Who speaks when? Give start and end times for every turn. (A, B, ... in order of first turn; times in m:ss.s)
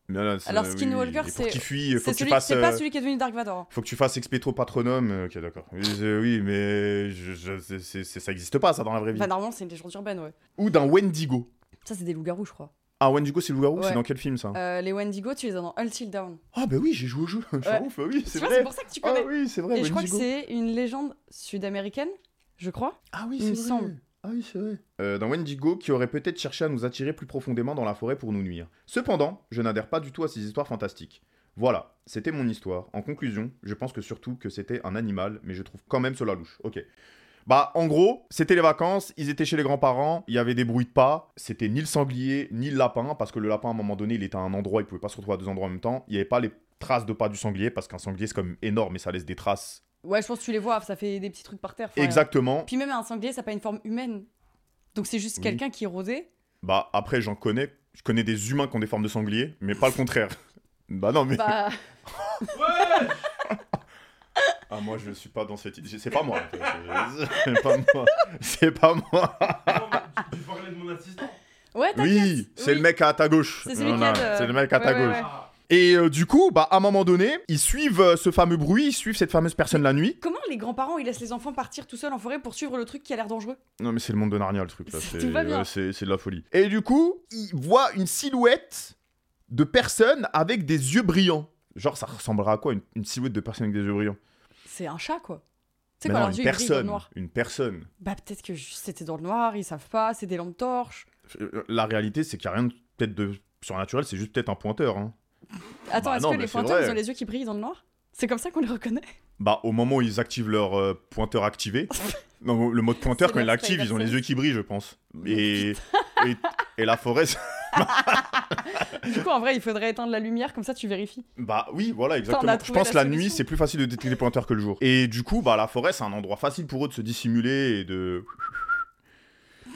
0:00.1-0:02.8 A
0:00.5-0:03.7 B
0:03.7-0:09.3 A
0:09.1-0:10.4 B
0:10.6-0:11.5 A
0:11.8-0:12.7 B
0:13.0-0:14.6 A
0:13.8-0:14.0 B
0:14.5-0:16.4 B
0:16.5-0:20.3 A
0:17.6-0:23.9 B
0:23.1-0:36.8 A
0:37.5-0:49.8 A
0:50.0-0:54.3 B
0:52.0-0:52.7 A
0:55.0-0:56.3 B
0:56.6-1:00.4 A
1:00.9-1:01.6 A
1:01.3-1:01.8 B
1:02.2-1:02.5 A
1:02.5-1:03.3 C
1:04.7-1:10.0 A
1:09.6-1:11.4 C
1:11.7-1:12.9 B
1:12.0-1:20.2 A
1:13.6-1:15.3 B
1:13.9-1:14.4 C
1:15.0-1:15.5 C
1:20.2-1:23.6 B
1:23.8-1:29.0 A
1:24.9-1:25.7 B
1:29.5-1:34.2 A
1:34.7-1:35.4 B
1:36.0-1:37.1 B
1:36.0-1:37.9 A
1:38.0-1:41.1 B
1:41.3-1:45.2 A
1:45.9-1:49.1 B
1:46.0-1:47.0 A
1:49.4-1:59.1 A
1:53.0-1:54.2 B
1:55.2-1:56.3 B
1:57.8-2:01.2 B
2:01.4-2:08.7 A
2:02.3-2:03.4 B